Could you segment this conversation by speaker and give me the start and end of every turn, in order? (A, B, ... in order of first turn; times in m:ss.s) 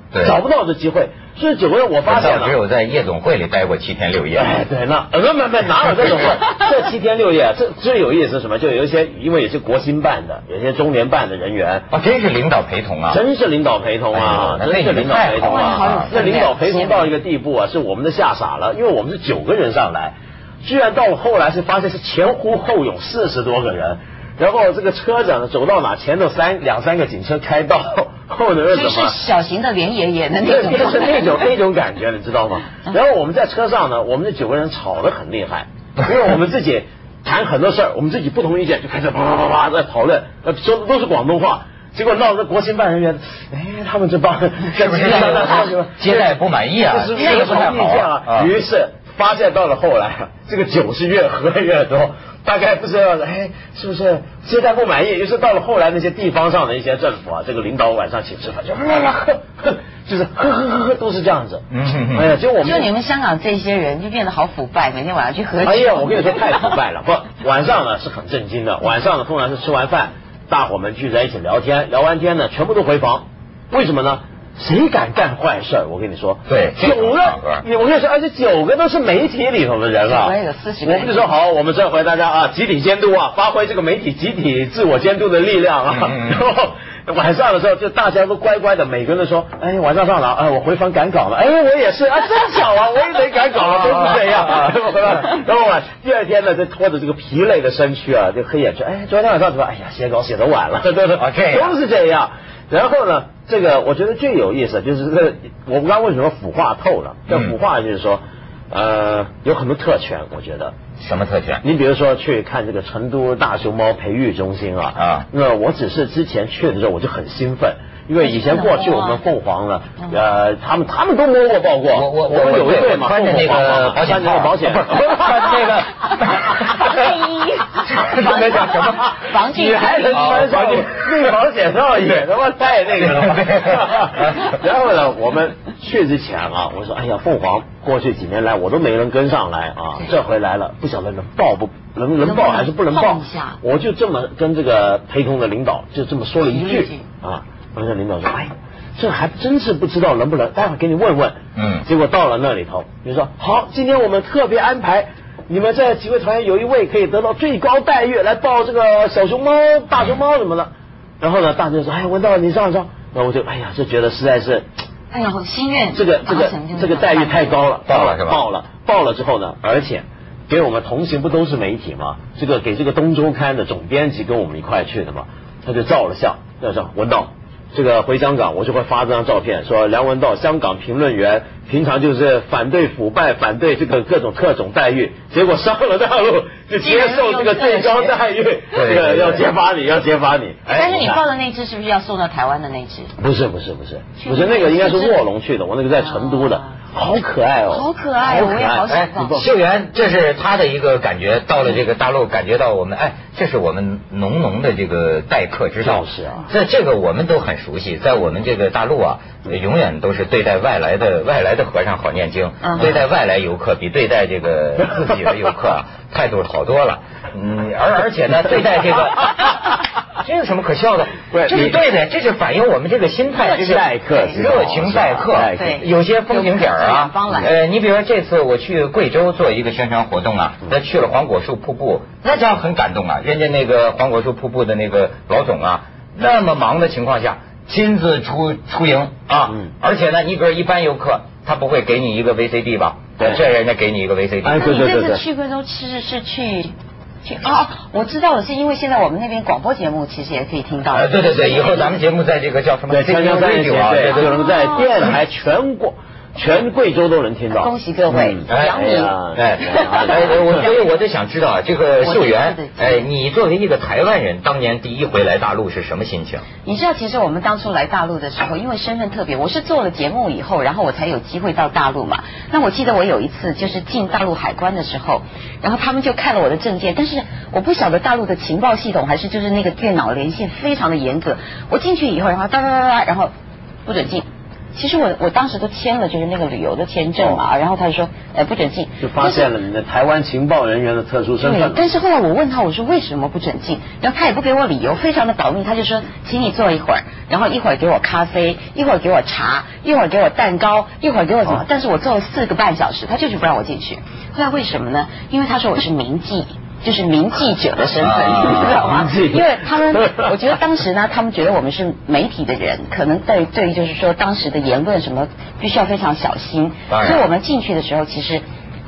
0:00.1-0:00.4 A
0:00.2-0:02.6 B
0:02.1-0:04.6 A
0:04.4-0:11.9 B
0:11.9-0:13.2 A
0:13.1-0:29.2 B
0:14.1-0:16.2 A
0:15.4-0:17.1 C
0:28.7-0:31.5 C
0:30.4-1:02.9 B
0:44.7-0:48.5 A
0:45.2-0:45.6 C
0:47.2-0:47.7 C
1:01.7-1:02.3 A
1:02.6-1:06.8 C
1:05.6-1:50.8 B
1:16.5-1:17.6 A
1:20.0-1:21.3 C
1:26.0-1:26.5 A
1:33.8-1:34.7 A
1:41.1-1:41.8 A
1:47.3-1:47.6 A
1:51.0-1:51.6 A
1:51.6-2:05.3 B
1:55.0-1:55.3 A
1:58.2-1:59.2 C
2:01.9-2:07.0 A
2:06.4-2:10.7 C
2:07.9-2:09.2 A
2:09.0-2:44.7 B
2:10.1-2:11.2 A
2:13.1-2:14.5 A
2:22.2-2:23.6 C
2:26.4-2:27.0 C
2:31.6-2:31.9 A
2:45.1-2:47.6 C
2:45.9-3:11.2 B
2:47.9-2:48.4 A
3:06.8-3:08.2 C
3:08.7-3:09.4 A
3:10.7-3:13.1 C
3:13.2-3:19.5 B
3:14.2-3:15.3 C
3:16.0-3:16.8 C
3:17.7-3:19.4 C
3:18.9-4:04.7 A
3:25.8-3:26.5 B
3:32.6-3:33.0 C
3:41.3-3:41.8 B
3:43.3-3:44.4 C
3:43.6-3:45.8 B
3:45.3-3:47.6 C
4:03.2-4:03.4 B
4:04.4-4:05.2 B
4:04.6-4:12.0 C
4:10.9-4:14.4 A
4:12.9-4:20.7 B
4:14.1-4:15.2 C
4:17.6-4:20.6 C
4:18.5-4:26.4 A
4:22.0-4:23.1 C
4:26.6-4:43.3 C
4:43.8-4:49.5 C
4:47.2-4:47.4 B
4:49.0-4:51.9 B
4:51.4-5:18.4 C
5:08.0-5:08.9 A
5:08.4-5:10.3 B
5:16.9-5:17.3 A